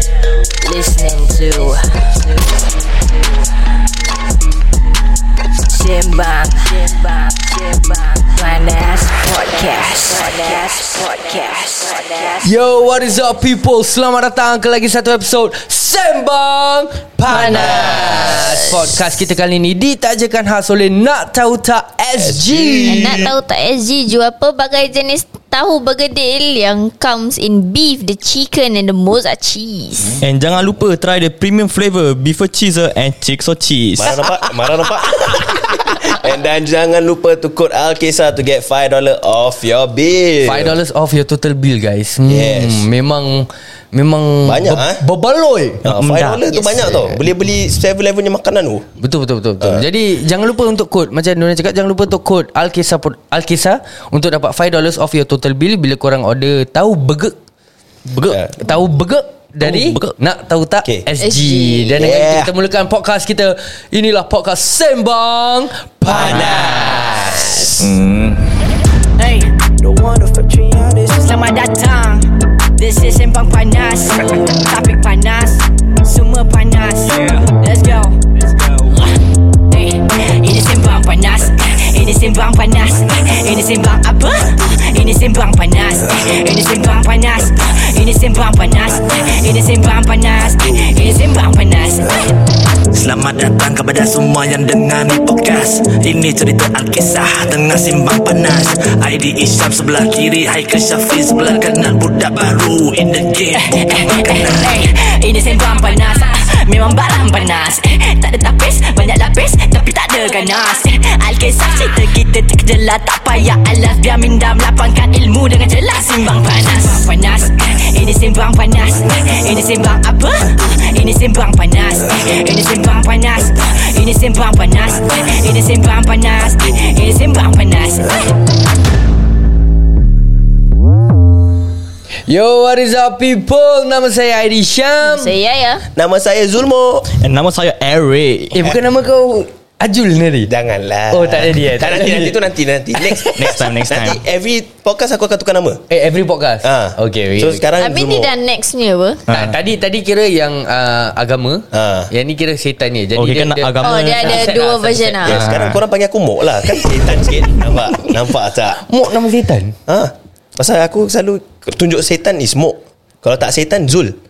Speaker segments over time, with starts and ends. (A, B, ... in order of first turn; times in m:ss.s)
0:00.2-0:02.4 A
0:05.6-0:12.5 A
0:12.4-0:23.2 B
0:17.3-0:18.6 C
0:17.4-0:18.6 D
0:22.2-0:23.3 C
0:22.9-0:30.2 D
0:30.2-0:34.4 E
0:34.0-0:40.8 C
0:40.4-0:45.8 B
0:42.3-0:42.8 C
0:44.4-0:45.0 C
0:45.8-0:46.5 E
0:45.8-0:48.8 C
0:49.0-0:57.4 B
0:58.1-0:58.4 E
0:58.3-0:58.6 C
0:58.6-1:07.7 B
0:59.6-1:00.1 E
1:01.3-1:01.6 D
1:01.8-1:02.5 C
1:06.0-1:07.9 C
1:06.1-1:08.5 E
1:09.2-1:09.6 A
1:09.8-1:11.3 C
1:11.2-1:18.2 A
1:19.7-1:32.4 A
1:32.9-1:44.8 F
1:43.6-2:08.3 A
2:12.3-2:15.3 B
2:15.0-2:15.8 D
2:15.9-2:17.1 C
2:17.1-2:18.8 E
2:18.5-2:20.5 B
2:20.5-2:25.8 C
2:21.1-2:22.4 B
2:23.0-2:23.4 B
2:23.4-2:24.2 E
2:25.9-2:27.6 B
2:26.6-2:28.3 C
2:27.8-2:29.2 D
2:29.3-2:29.6 E
2:29.3-2:35.2 B
2:31.7-2:32.1 C
2:33.2-2:34.5 E
2:33.8-2:35.4 D
2:35.2-2:38.8 C
2:35.3-2:35.8 E
2:38.8-2:39.8 B
2:39.9-2:44.1 C